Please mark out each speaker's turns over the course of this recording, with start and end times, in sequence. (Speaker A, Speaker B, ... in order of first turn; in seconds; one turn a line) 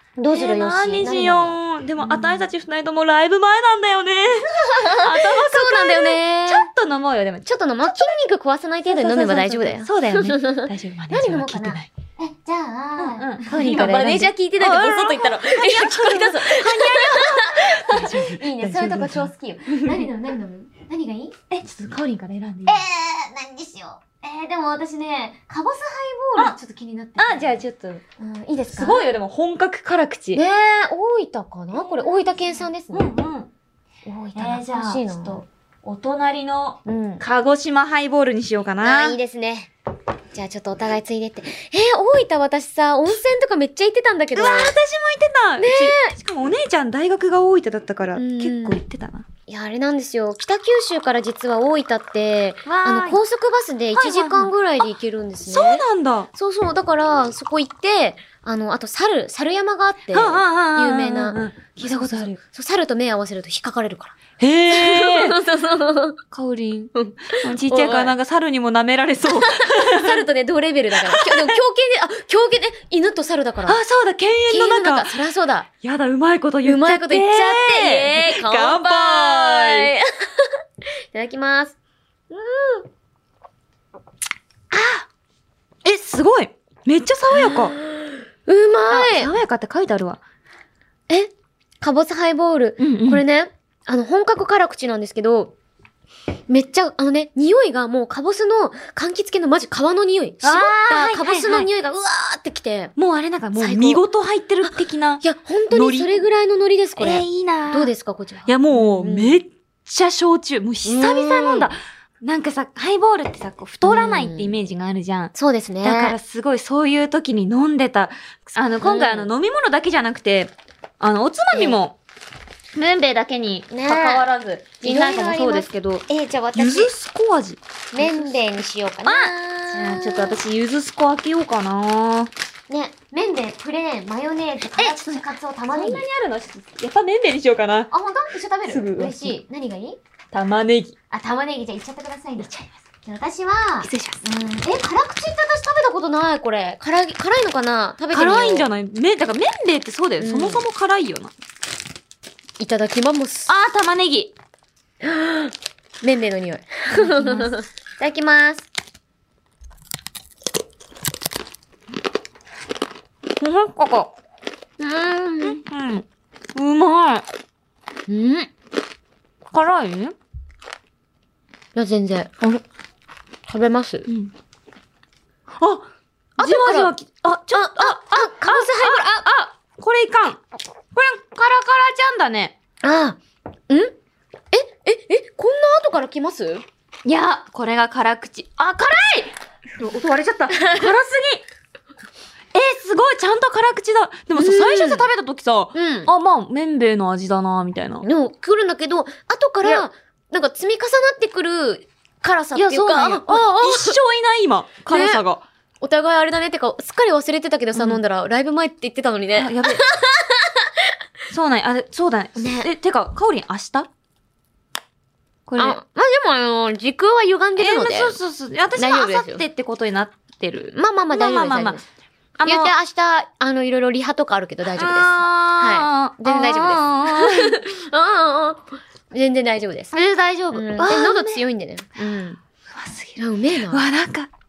Speaker A: 0.2-2.5
Speaker B: 0.3-8.1
Speaker A: 4.5-6.7
Speaker A: 7.4-21.3
Speaker B: 8.8-11.9
Speaker B: 13.0-20.1
Speaker B: 21.5-22.8
Speaker A: 22.6-27.6
Speaker B: 27.2-28.0
Speaker A: 28.2-29.0
Speaker B: 28.7-30.4
Speaker A: 30.3-33.1
Speaker B: 31.9-32.3
Speaker B: 32.9-33.5
Speaker A: 34.0-35.4
Speaker B: 34.3-39.2
Speaker A: 36.8-37.2
Speaker A: 38.8-39.7
Speaker A: 40.3-44.7
Speaker B: 44.3-49.2
Speaker A: 45.6-46.1
Speaker A: 48.1-48.8
Speaker A: 49.5-64.2
Speaker B: 52.6-53.2
Speaker B: 53.9-54.5
Speaker B: 55.5-56.3
Speaker B: 60.1-62.4
Speaker B: 64.4-65.4
Speaker A: 64.7-66.2
Speaker B: 66.3-70.2
Speaker A: 66.9-68.1
Speaker A: 69.3-73.8
Speaker B: 71.0-71.6
Speaker B: 73.7-75.2
Speaker A: 74.5-75.7
Speaker B: 75.8-79.9
Speaker A: 76.6-81.8
Speaker A: 82.3-82.9
Speaker B: 84.7-85.0
Speaker B: 85.8-87.8
Speaker A: 87.3-89.3
Speaker B: 88.9-90.2
Speaker A: 91.1-95.5
Speaker B: 92.8-93.2
Speaker A: 96.5-102.9
Speaker B: 100.4-101.7
Speaker B: 103.0-106.2
Speaker A: 103.5-104.0
Speaker A: 105.2-109.4
Speaker B: 107.0-107.9
Speaker B: 108.5-122.0
Speaker A: 110.8-111.7
Speaker A: 113.8-114.6
Speaker A: 115.3-116.2
Speaker A: 118.8-119.3
Speaker A: 121.5-121.8
Speaker B: 122.7-126.0
Speaker A: 123.7-126.9
Speaker B: 126.5-128.4
Speaker A: 127.9-130.4
Speaker B: 129.0-132.3
Speaker A: 132.7-136.1
Speaker B: 134.8-137.9
Speaker A: 137.9-140.0
Speaker B: 138.7-139.4
Speaker B: 140.3-140.9
Speaker A: 141.1-142.5
Speaker B: 142.4-142.7
Speaker A: 143.0-148.7
Speaker B: 143.8-144.2
Speaker B: 148.1-151.3
Speaker A: 150.2-150.6
Speaker A: 152.6-153.5
Speaker B: 153.5-154.3
Speaker A: 155.0-158.7
Speaker B: 156.9-157.5
Speaker B: 163.4-164.2
Speaker A: 164.8-165.6
Speaker B: 165.4-167.2
Speaker A: 168.1-168.5
Speaker B: 169.5-170.1
Speaker A: 171.7-172.6
Speaker A: 173.5-174.1
Speaker B: 174.1-174.3
Speaker B: 175.6-175.8
Speaker B: 176.4-180.4
Speaker A: 176.4-176.9
Speaker A: 177.5-179.2
Speaker B: 180.9-182.5
Speaker A: 182.8-183.9
Speaker A: 184.5-186.6
Speaker B: 187.0-191.4
Speaker A: 190.5-190.9
Speaker B: 192.5-198.1
Speaker A: 194.3-195.1
Speaker A: 195.7-196.1
Speaker A: 198.0-204.0
Speaker B: 202.5-205.4
Speaker A: 204.9-205.2
Speaker A: 205.8-210.9
Speaker B: 207.7-208.0
Speaker B: 209.3-209.8
Speaker B: 211.3-213.9
Speaker A: 212.4-212.7
Speaker B: 215.5-215.8
Speaker A: 215.6-218.2
Speaker B: 217.6-221.8
Speaker A: 218.8-219.4
Speaker A: 220.7-221.8
Speaker B: 222.4-222.7
Speaker A: 222.4-229.9
Speaker B: 224.7-227.6
Speaker B: 229.9-231.4
Speaker A: 230.5-232.4
Speaker B: 232.7-234.3
Speaker A: 233.2-233.8